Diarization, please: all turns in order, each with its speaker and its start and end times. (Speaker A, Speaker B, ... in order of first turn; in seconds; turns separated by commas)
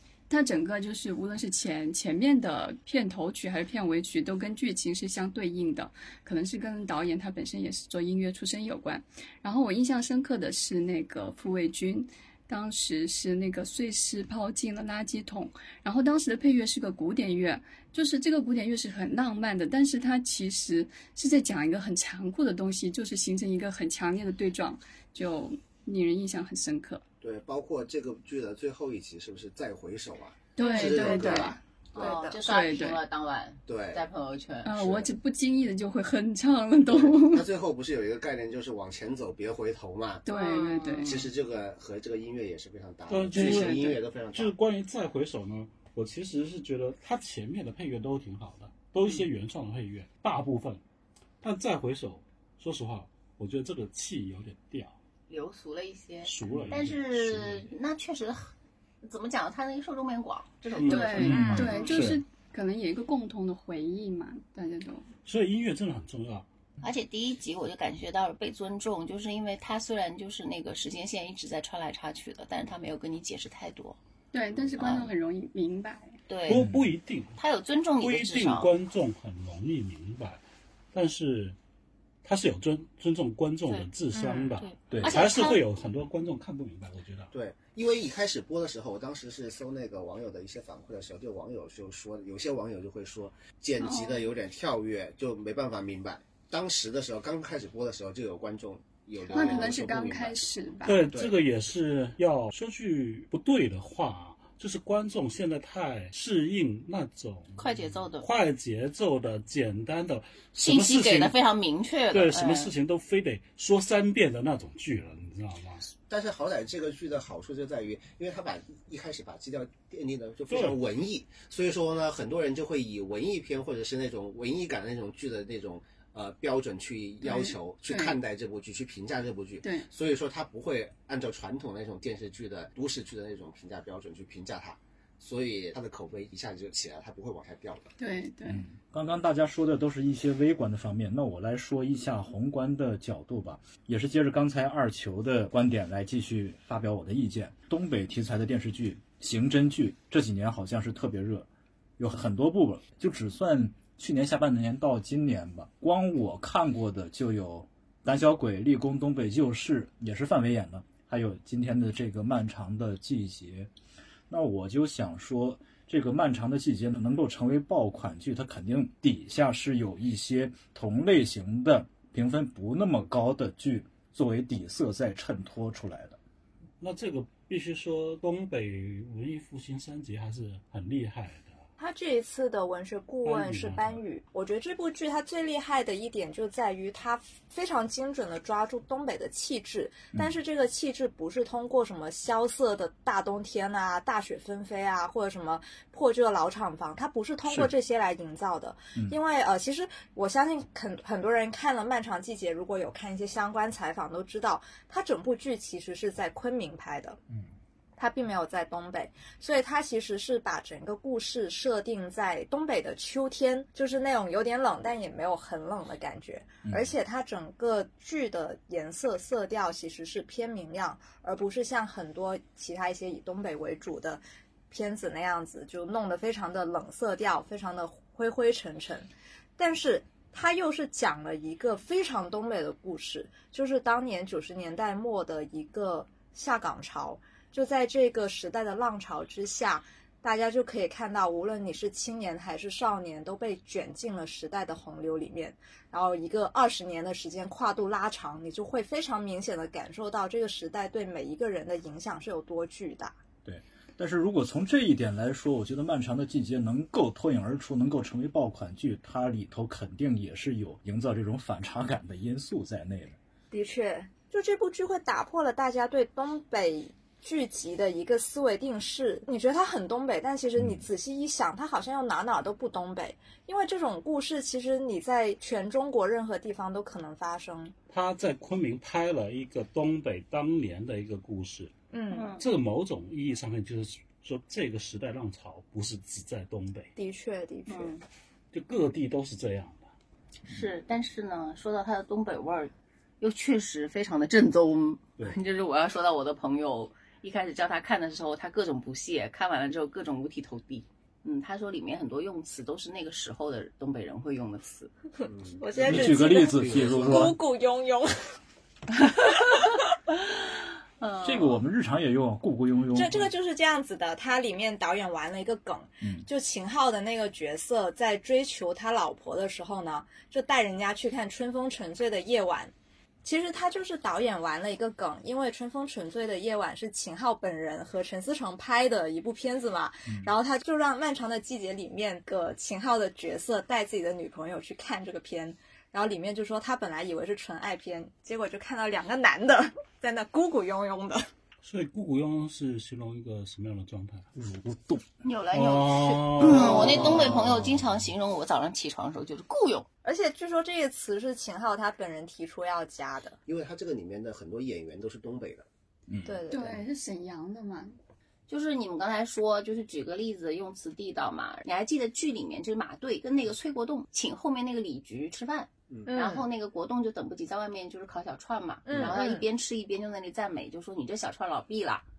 Speaker A: 0.3-27.0, Speaker B: 27.2-32.1, Speaker A: 30.6-33.0, Speaker C: 30.7-34.8, Speaker D: 30.8-31.1, Speaker D: 32.0-32.4, Speaker B: 33.7-34.0, Speaker A: 34.6-37.5, Speaker B: 36.9-40.2, Speaker A: 40.2-41.2, Speaker C: 40.3-41.2, Speaker B: 41.0-44.5, Speaker E: 43.1-50.8, Speaker A: 43.3-43.9, Speaker E: 51.4-55.0, Speaker C: 55.3-58.5, Speaker E: 56.3-57.7, Speaker C: 59.0-61.6, Speaker E: 60.8-61.5, Speaker A: 60.8-65.1, Speaker F: 61.2-62.2, Speaker D: 61.3-61.7, Speaker E: 65.2-66.5, Speaker C: 66.8-74.0, Speaker A: 74.3-76.2, Speaker C: 74.8-75.1, Speaker C: 76.3-76.7, Speaker E: 76.5-77.4, Speaker F: 76.5-76.9, Speaker C: 77.4-78.7, Speaker E: 78.0-80.4, Speaker E: 80.9-81.6, Speaker E: 82.2-87.3, Speaker D: 84.1-84.6, Speaker C: 84.6-85.6, Speaker F: 84.9-85.2, Speaker B: 87.3-101.4, Speaker A: 93.8-94.2, Speaker A: 99.3-101.1, Speaker E: 100.9-111.4, Speaker C: 107.6-108.3, Speaker C: 110.5-112.7, Speaker E: 112.1-115.9, Speaker B: 116.1-137.9, Speaker E: 120.5-120.8, Speaker A: 127.2-128.2, Speaker A: 129.6-129.9, Speaker A: 138.0-138.7, Speaker F: 138.5-151.5, Speaker F: 152.0-163.7, Speaker F: 164.3-176.2, Speaker E: 176.8-181.6, Speaker D: 181.8-207.2, Speaker E: 183.2-184.0, Speaker D: 208.0-253.2, Speaker F: 216.7-216.9, Speaker F: 253.4-263.2, Speaker D: 263.5-277.7, Speaker F: 270.6-270.9, Speaker E: 277.9-281.7, Speaker D: 281.9-282.3, Speaker C: 282.1-282.4, Speaker E: 282.4-286.9, Speaker D: 287.0-287.9, Speaker C: 287.7-288.1, Speaker E: 288.5-289.9, Speaker C: 290.5-304.9, Speaker B: 305.3-307.3, Speaker D: 305.6-308.2, Speaker F: 305.8-307.3, Speaker C: 309.1-309.4, Speaker C: 311.0-311.6, Speaker F: 311.2-313.3, Speaker D: 312.9-322.7, Speaker D: 323.2-341.3, Speaker E: 341.6-344.3, Speaker F: 344.4-345.1, Speaker C: 345.2-349.9, Speaker E: 345.5-347.4, Speaker F: 347.0-347.5, Speaker D: 350.0-353.4, Speaker B: 353.5-355.7, Speaker F: 356.1-356.4, Speaker D: 356.2-356.8, Speaker A: 356.5-358.0, Speaker C: 358.5-372.1, Speaker D: 366.1-366.5, Speaker D: 368.9-369.4, Speaker B: 368.9-369.2